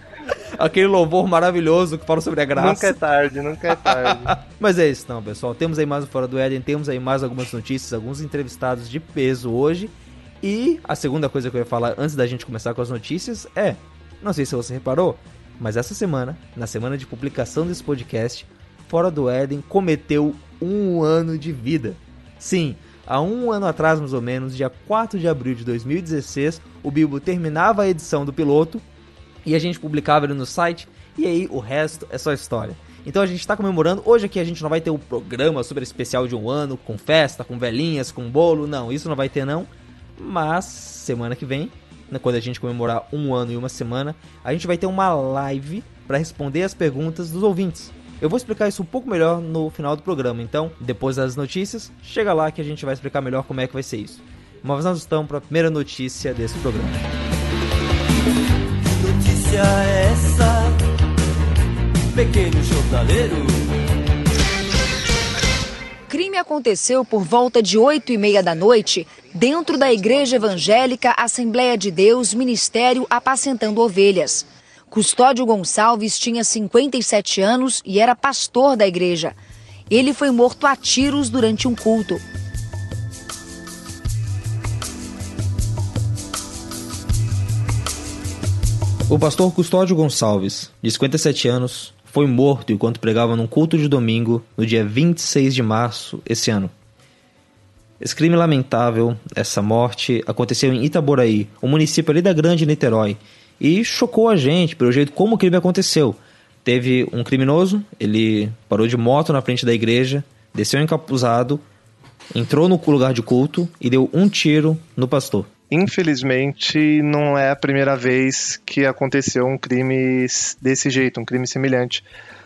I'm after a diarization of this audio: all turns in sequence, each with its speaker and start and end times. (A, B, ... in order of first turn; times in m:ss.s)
0:00.3-0:03.0 A
0:02.6-0:04.4 B
0:03.7-0:28.8 A
0:29.4-0:57.0 A
0:59.0-1:00.5 C
1:02.1-1:03.5 C
1:06.1-1:19.4 D
1:19.9-1:22.2 D
1:29.1-1:36.7 A
1:38.0-1:51.6 A
1:52.3-1:55.5 A
1:55.7-2:02.0 B